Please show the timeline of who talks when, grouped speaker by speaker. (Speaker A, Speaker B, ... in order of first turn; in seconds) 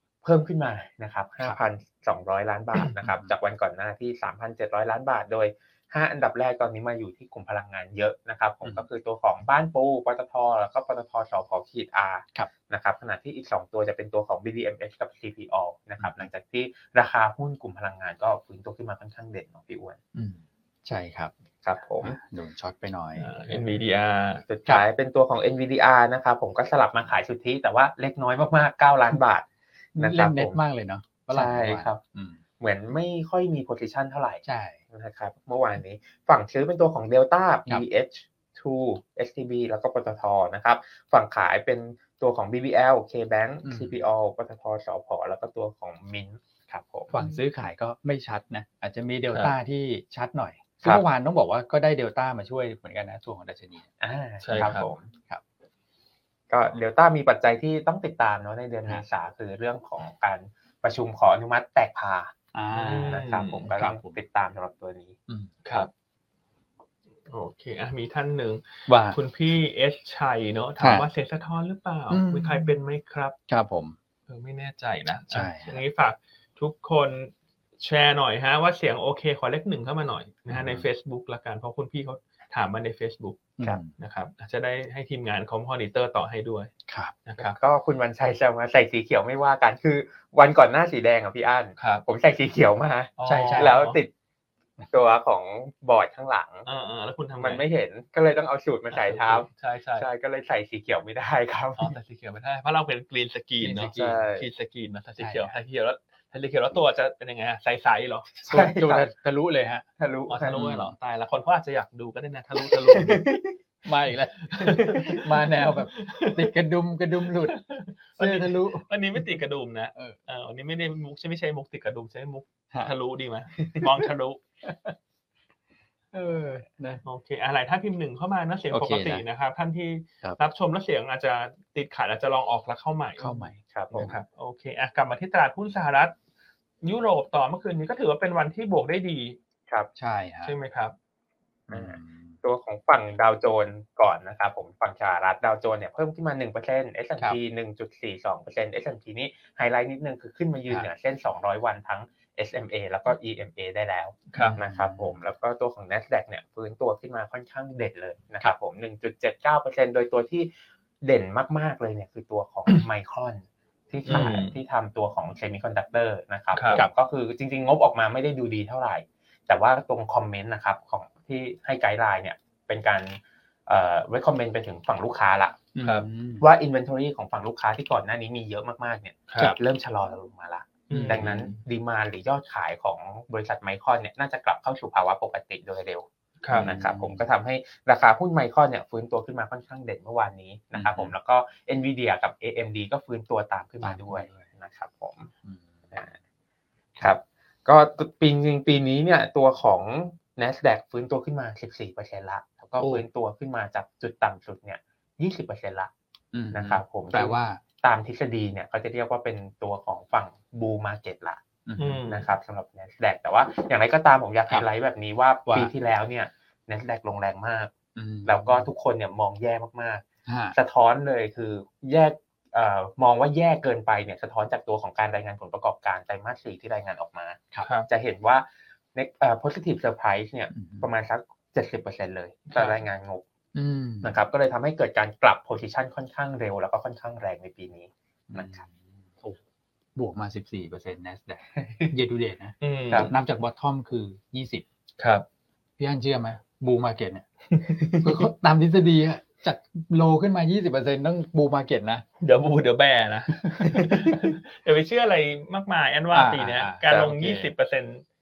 Speaker A: 0.2-20.0, 21.6-22.2, 24.5-29.4, 30.0-30.6, 31.3-32.0, 32.6-47.2, 54.0-55.1, 56.5-62.3, 63.1-65.2, 87.4-94.1, 94.9-96.7, 97.4-102.0, 104.0-104.5, 108.5-109.1, 110.0-110.7, 112.9-113.6, 133.7-134.1, 141.7-160.5, 161.0-175.7, 176.4-195.3, 197.0-205.9, 206.5-211.4, 212.1-217.7, 218.2-233.2, 234.0-238.6, 241.6-241.9, 247.8-248.2, 256.9-257.2
Speaker B: 3.0-3.3, 16.0-16.3, 20.1-21.3, 22.0-23.3, 30.0-32.4, 34.5-34.8, 43.6-44.0, 47.1-53.9, 62.5-64.2, 68.9-69.2, 70.8-71.1, 72.1-72.8, 73.5-74.0, 75.3-75.8, 80.5-80.9, 83.6-83.9, 86.9-87.2, 93.3-93.8, 103.6-104.3, 105.2-105.5, 108.4-109.8, 110.5-110.9, 113.8-117.6, 118.2-119.3, 123.6-123.9, 124.6-125.0, 126.1-127.0, 128.7-129.2, 133.2-134.2, 140.0-140.5, 141.7-142.4, 154.4-155.2, 175.8-176.5, 180.9-181.3, 186.5-187.2, 190.8-191.2, 193.8-194.5, 195.4-195.9, 202.8-203.0, 206.3-207.6, 211.7-212.0, 217.9-218.7, 220.3-220.6, 230.5-230.9, 233.5-234.2, 238.3-239.4, 240.0-244.7, 245.8-247.3, 247.9-252.1, 253.3-254.2, 256.1-257.5
Speaker C: 23.2-24.4, 54.4-54.9, 62.7-63.7, 65.6-65.9, 67.3-73.3, 74.3-83.4, 84.0-86.7, 87.3-87.6, 91.8-92.0, 93.2-94.0, 96.7-97.6, 98.9-100.1, 101.8-108.3, 110.3-113.3, 114.5-116.5, 117.4-124.4, 127.0-136.1, 136.8-139.4, 140.4-140.9, 154.3-154.6, 164.1-164.6, 166.5-166.8, 175.8-176.1, 179.3-179.6, 180.9-181.6, 186.4-186.7, 211.8-212.3, 227.6-227.9, 232.5-232.8, 242.6-243.1, 245.0-245.2, 252.2-258.0